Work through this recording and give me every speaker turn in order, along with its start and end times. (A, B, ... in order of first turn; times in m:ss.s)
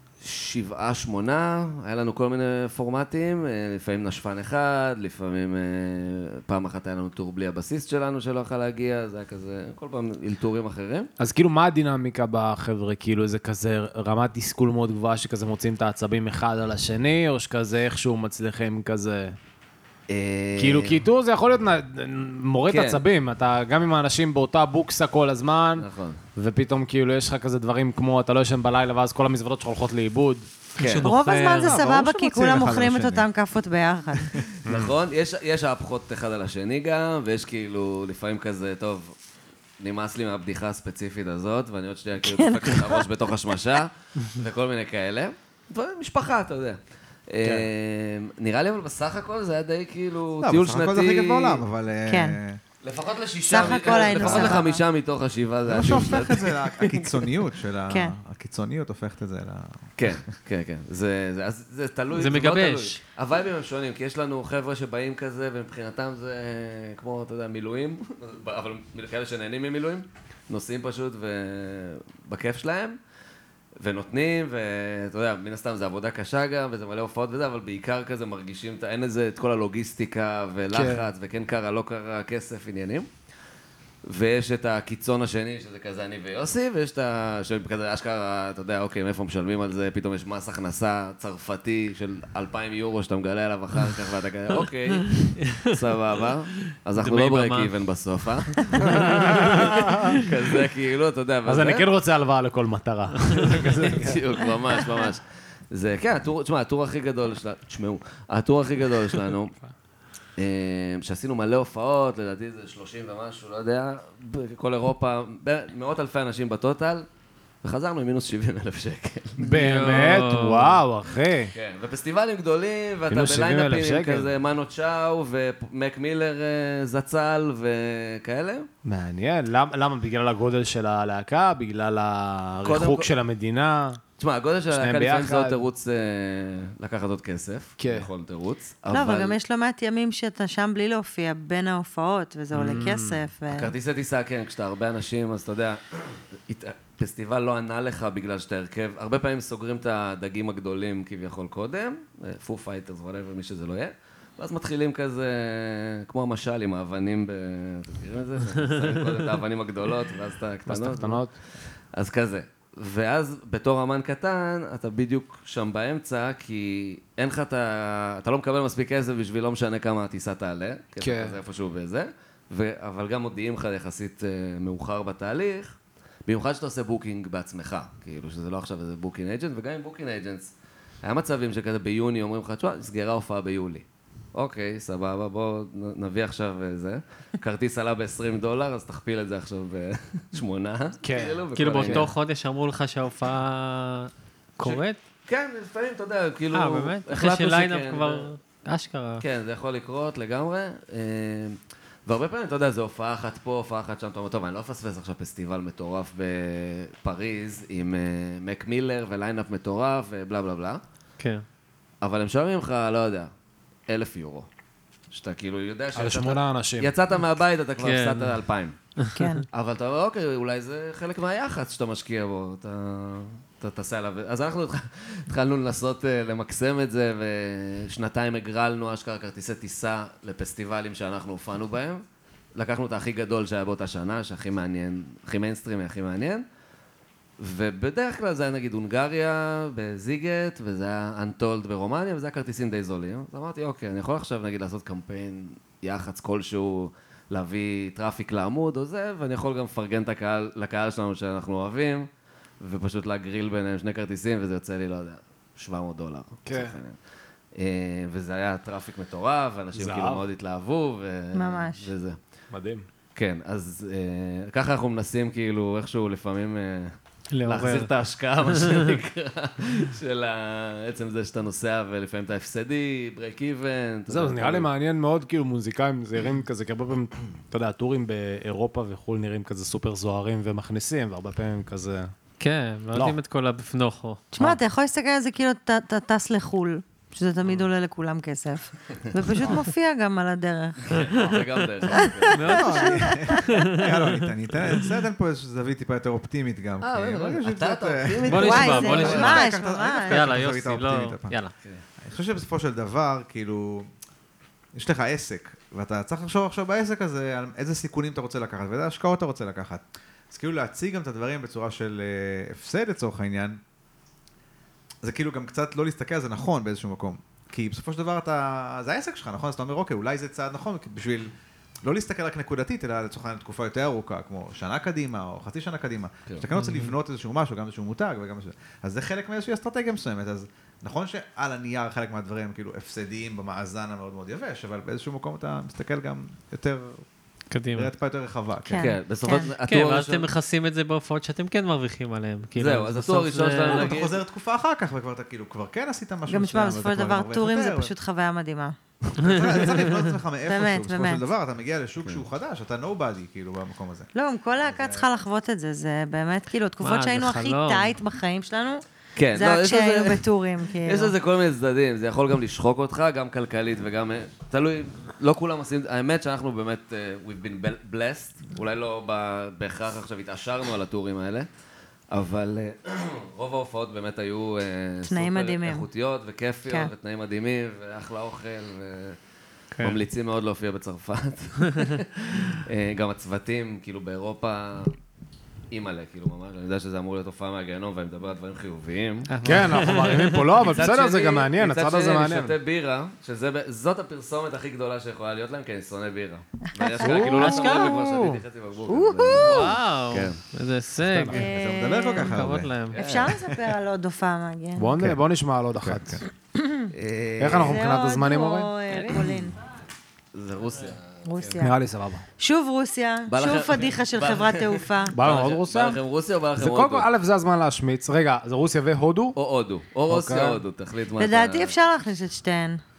0:00.2-0:11.1 A
0:11.2-0:19.3 B
0:20.1-0:21.0 A
0:20.6-0:30.5 B
0:22.7-0:23.0 A
0:25.8-0:26.2 A
0:30.8-0:31.1 A
0:30.8-0:31.7 C
0:31.0-0:34.4 D
0:31.4-0:33.3 E
0:34.6-0:34.9 B
0:34.6-0:39.1 A
0:39.8-0:51.6 A
0:42.2-0:43.0 D
0:50.4-0:52.6 E
0:52.1-0:52.4 D
0:52.8-0:57.3 A
0:53.4-0:54.8 D
0:53.6-0:54.6 E
0:55.7-0:59.8 E
0:57.9-0:58.2 D
1:00.0-1:13.0 A
1:02.1-1:03.0 C
1:13.8-1:23.1 A
1:20.7-1:21.1 B
1:24.0-1:41.9 A
1:35.2-1:35.7 C
1:36.9-1:37.7 C
1:38.7-1:39.6 C
1:38.9-1:39.7 B
1:41.4-1:44.2 B
1:43.4-1:49.5 A
1:50.4-1:57.0 A
1:57.6-2:00.2 A
1:59.4-2:01.5 B
1:59.5-2:00.8 C
2:01.5-2:08.7 A
2:03.1-2:04.3 B
2:08.8-2:14.0 B
2:12.6-2:13.1 A
2:14.2-2:19.4 A
2:14.7-2:15.6 B
2:17.8-2:18.1 B
2:18.9-2:23.7 D
2:22.5-2:23.2 B
2:23.5-2:41.2 A
2:40.7-2:41.3 B
2:41.9-2:55.7 A
2:51.0-2:51.4 B
2:56.2-3:12.1 A
3:11.0-3:12.1 B
3:11.6-3:15.0 C
3:14.6-3:18.3 A
3:16.5-3:19.2 C
3:19.2-3:30.8 A
3:31.2-3:31.4 C
3:32.0-3:33.3 A
3:33.9-3:34.5 A
3:35.1-3:38.8 A
3:35.9-3:36.9 B
3:37.8-3:38.4 C
3:39.0-3:39.4 C
3:39.1-3:39.4 D
3:39.5-3:52.0 A
3:52.5-3:56.4 A
3:57.4-4:12.1 A
4:12.6-4:17.0 A
4:16.4-4:16.8 B
4:17.6-4:22.2 A
4:19.7-4:20.2 B
4:21.3-4:21.9 D
4:22.5-4:22.8 B
4:23.2-4:26.9 A
4:27.3-4:27.9 C
4:27.4-4:34.7 A
4:34.1-4:42.1 B
4:42.4-4:44.2 C
4:44.3-4:51.1 D
4:50.9-4:52.4 A
4:51.9-4:53.6 D
4:52.3-4:54.2 C
4:52.4-5:01.4 E
4:56.8-4:59.4 A
4:58.3-4:59.4 C
4:58.3-5:00.3 D
5:00.1-5:01.5 C
5:02.0-5:03.9 E
5:04.7-5:13.6 E
5:15.0-5:21.3 E
5:21.8-5:37.0 E
5:26.6-5:26.9 C
5:37.5-5:37.9 C
5:37.7-5:38.9 E
5:38.7-5:39.5 D
5:38.8-5:40.3 A
5:39.6-5:43.9 C
5:42.6-5:44.2 A
5:43.7-5:47.9 E
5:46.3-5:48.8 D
5:49.2-5:54.1 E
5:50.4-5:51.2 D
5:54.1-5:58.8 D
5:54.7-5:55.0 E
5:56.8-5:57.9 C
5:59.2-6:00.2 A
5:59.3-6:01.1 D
6:00.8-6:11.5 A
6:12.1-6:19.2 A
6:15.1-6:15.9 D
6:19.8-6:24.9 A
6:25.7-6:30.0 A
6:29.3-6:30.5 C
6:29.4-6:32.6 B
6:30.6-6:40.4 A
6:36.8-6:37.6 D
6:37.0-6:38.4 B
6:37.4-6:37.9 C
6:38.9-6:39.7 D
6:39.4-6:41.5 C
6:41.0-6:41.4 B
6:41.3-6:42.4 D
6:41.4-6:42.8 E
6:42.2-6:43.0 C
6:42.9-6:43.4 A
6:43.0-6:44.9 D
6:44.8-6:46.2 B
6:45.8-6:46.2 E
6:46.5-6:46.9 D
6:46.9-6:47.8 A
6:47.4-6:48.7 B
6:47.6-6:49.6 D
6:50.3-6:51.6 A
6:51.2-6:51.7 D
6:51.6-6:52.2 B
6:52.4-6:55.1 D
6:53.3-6:57.1 A
6:55.1-6:56.0 B
6:56.6-6:59.4 B
6:59.4-7:01.8 A
7:00.1-7:00.6 B
7:01.2-7:02.8 D